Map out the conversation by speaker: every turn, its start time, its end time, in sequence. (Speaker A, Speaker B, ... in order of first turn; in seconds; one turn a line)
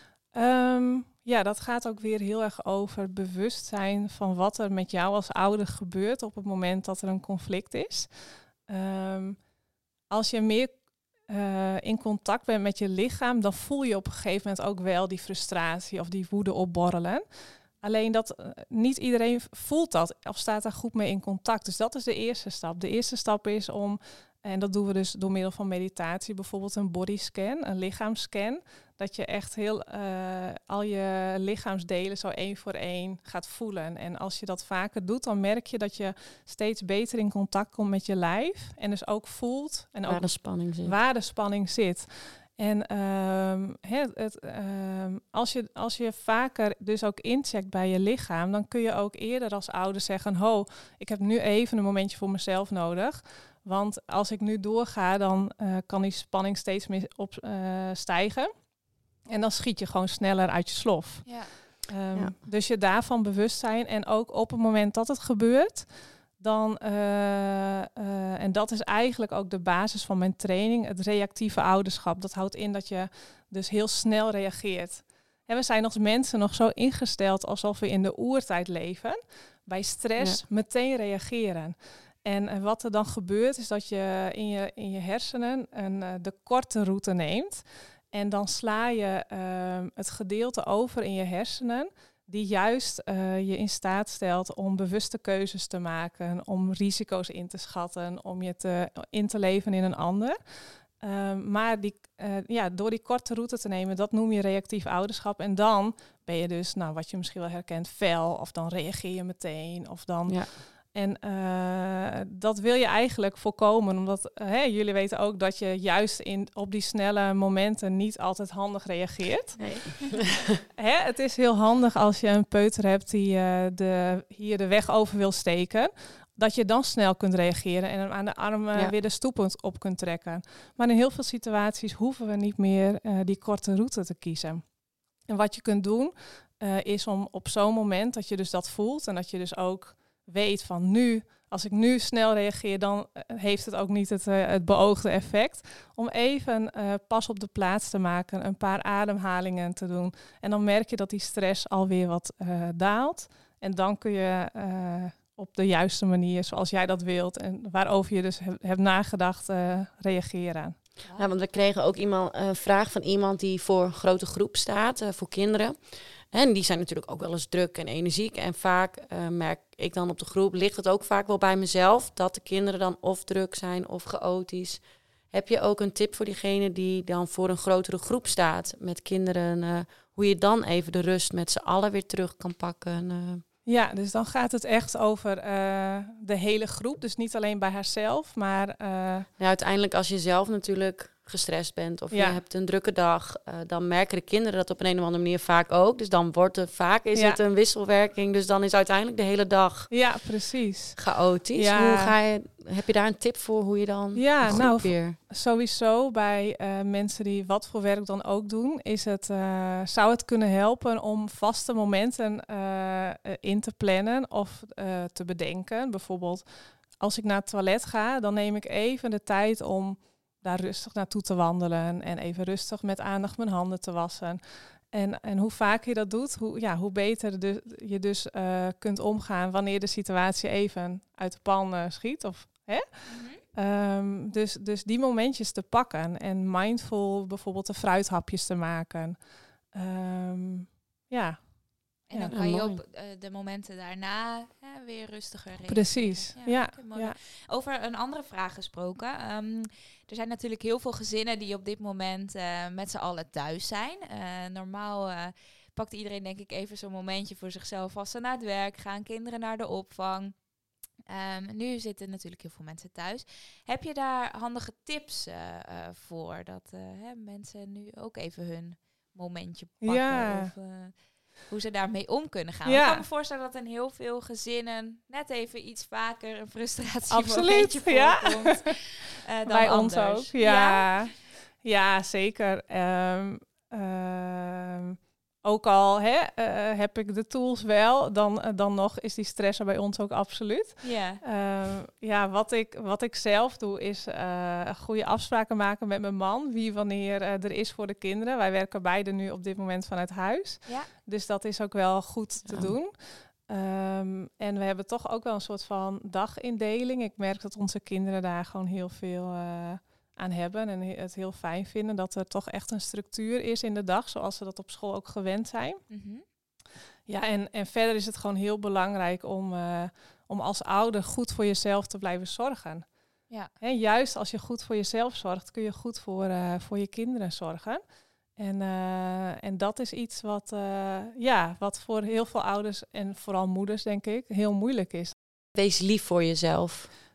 Speaker A: 0.3-8.1
Speaker A: 8.7-9.4
Speaker A: 10.1-10.8
Speaker A: 11.3-17.2
Speaker A: 17.8-58.5
Speaker B: 40.1-40.9
Speaker A: 59.3-120.0
Speaker C: 61.2-61.5
Speaker B: 119.6-120.6
Speaker A: 120.7-134.7
Speaker A: 135.3-160.8
Speaker B: 161.1-183.4
Speaker A: 183.7-189.3
Speaker B: 189.4-200.0
Speaker A: 192.1-192.4
Speaker A: 197.1-197.4
Speaker A: 199.9-202.2
Speaker B: 200.9-205.2
Speaker A: 204.1-216.4
Speaker A: 216.9-239.2
Speaker C: 233.1-233.4
Speaker A: 239.7-241.4
Speaker A: 242.0-242.4
Speaker C: 242.1-260.5
Speaker B: 242.3-242.8
Speaker A: 245.7-247.2
Speaker C: 261.1-281.1
Speaker A: 269.8-270.5
Speaker A: 272.6-273.0
Speaker A: 277.1-278.9
Speaker A: 279.4-315.8
Speaker C: 290.8-291.2
Speaker B: 302.4-302.7
Speaker C: 315.9-316.2
Speaker A: 317.1-322.9
Speaker A: 323.6-327.8
Speaker A: 328.4-335.1
Speaker B: 335.5-336.9